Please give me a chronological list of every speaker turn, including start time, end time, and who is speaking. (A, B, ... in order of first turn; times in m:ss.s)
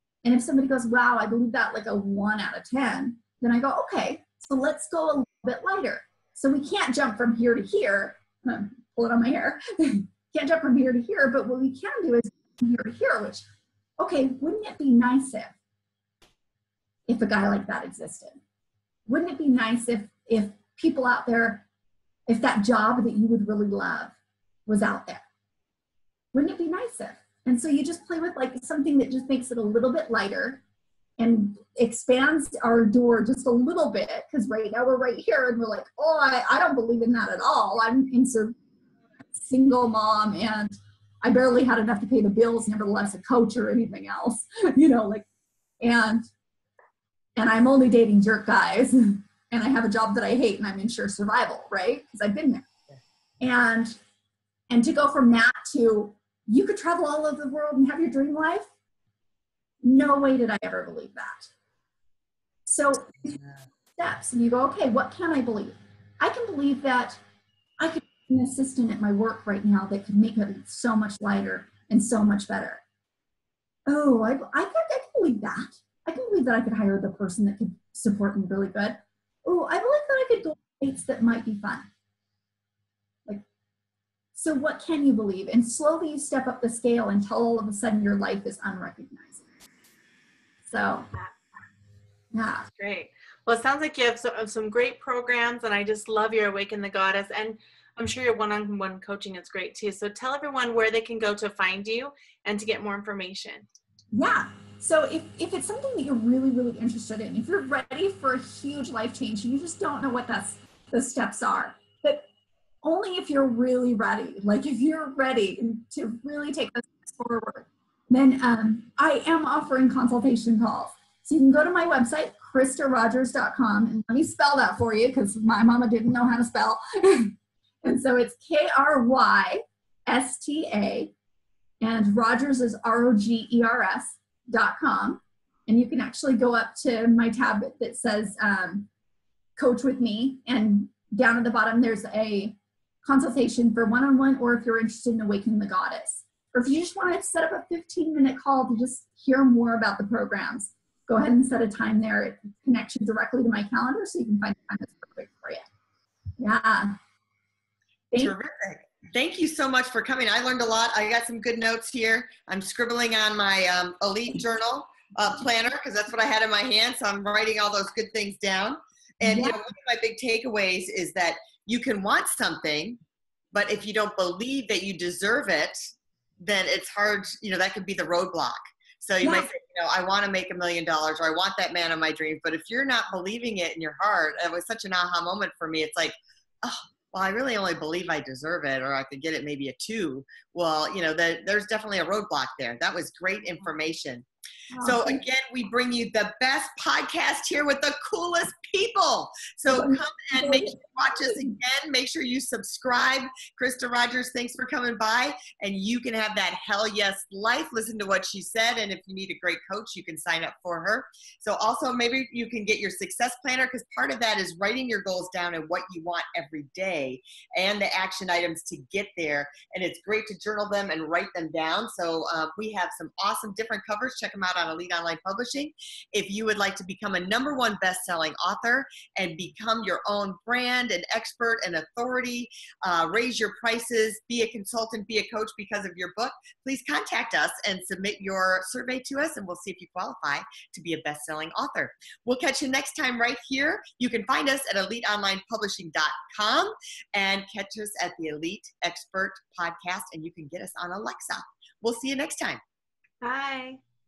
0:00.2-0:13.4 A
0:14.0-0:15.6 A
0:17.1-0:18.4 A
0:19.1-0:21.6 A
0:22.3-0:24.2 A
0:24.7-0:25.2 A
0:26.3-0:30.6 A
0:31.2-0:38.6 A
0:39.4-0:45.3 A
0:45.8-0:46.3 A
0:47.4-0:52.7 A
0:53.4-0:54.0 A
0:54.7-0:58.7 A
0:59.8-1:01.5 A
1:02.7-1:03.4 A
1:04.0-1:07.2 A
1:07.8-1:12.8 A
1:13.9-1:21.9 A
1:24.4-1:29.4 A
1:30.6-1:31.1 A
1:32.3-1:32.7 A
1:32.8-1:43.7 B
1:44.1-1:52.3 A
1:52.8-2:11.1 A
2:11.8-2:18.9 A
2:19.6-2:35.6 A
2:36.4-2:37.0 A
2:38.1-2:38.4 A
2:38.2-2:53.0 C
2:49.2-2:49.6 A
2:53.5-2:55.9 C
2:56.4-3:14.3 C
2:59.2-2:59.5 A
3:14.7-3:15.2 A
3:14.8-4:12.6 C
3:19.7-3:21.5 A
4:13.2-4:13.8 B